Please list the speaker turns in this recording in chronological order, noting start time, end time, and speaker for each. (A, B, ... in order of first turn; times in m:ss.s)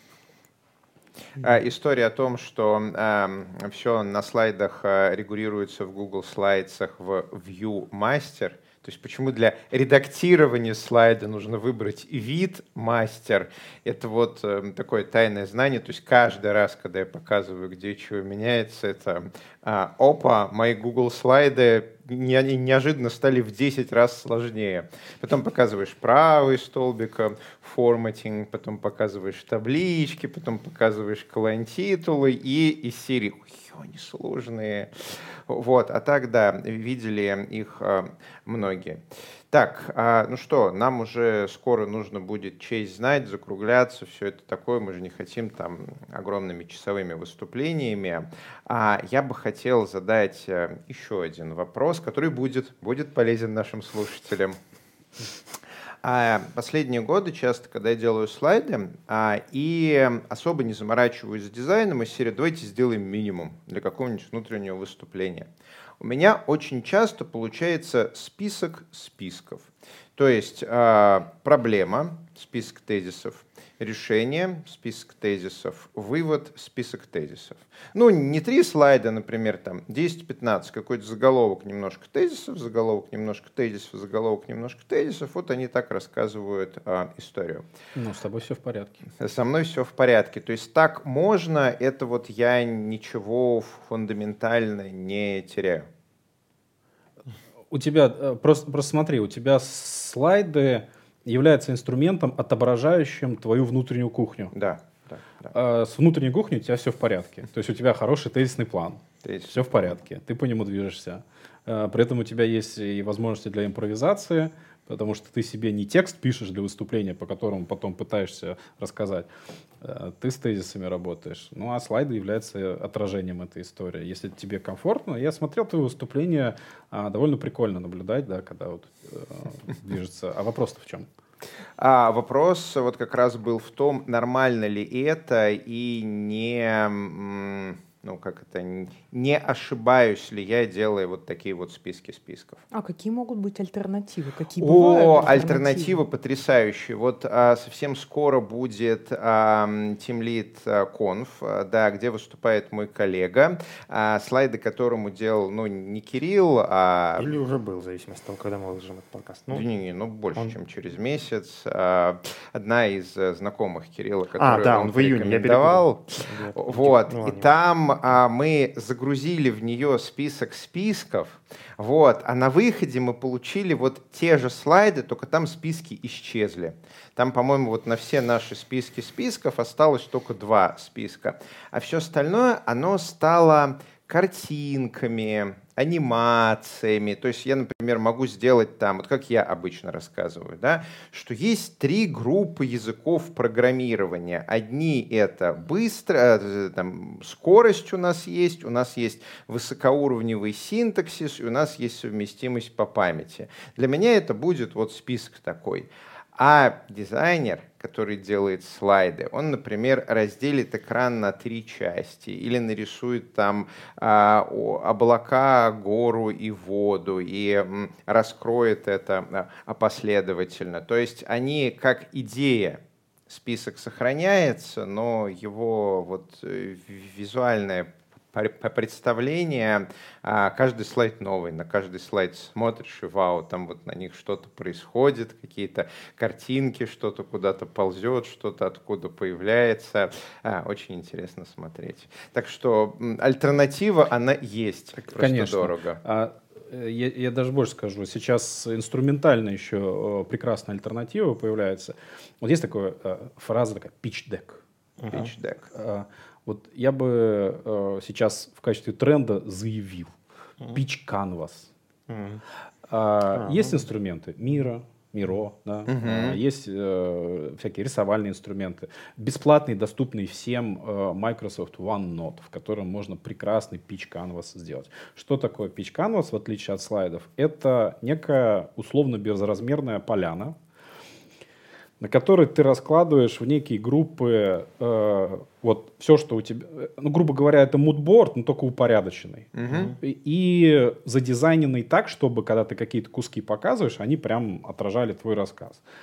0:01.4-0:54.6 A
0:56.0-1:05.5 A
1:06.0-1:27.6 A
1:28.0-1:29.1 B
1:29.2-1:35.9 A
1:37.7-1:44.5 B
1:44.5-1:45.5 A
1:45.5-1:59.3 B
1:49.2-1:49.9 A
1:59.8-2:11.1 B
2:11.8-2:22.6 A
2:22.7-2:26.0 C
2:24.6-2:37.3 A
2:37.2-2:39.7 D
2:39.5-2:46.0 A
2:44.4-2:47.5 D
2:46.6-4:06.0 A
4:05.1-4:14.6 B
4:15.0-4:15.3 D
4:15.1-4:15.7 A
4:15.1-4:20.2 B
4:20.7-4:21.7 B
4:22.1-4:22.4 D
4:22.9-4:40.6 B
4:23.3-4:23.9 D
4:25.9-4:26.4 A
4:42.0-4:55.8 B
4:49.6-4:50.0 A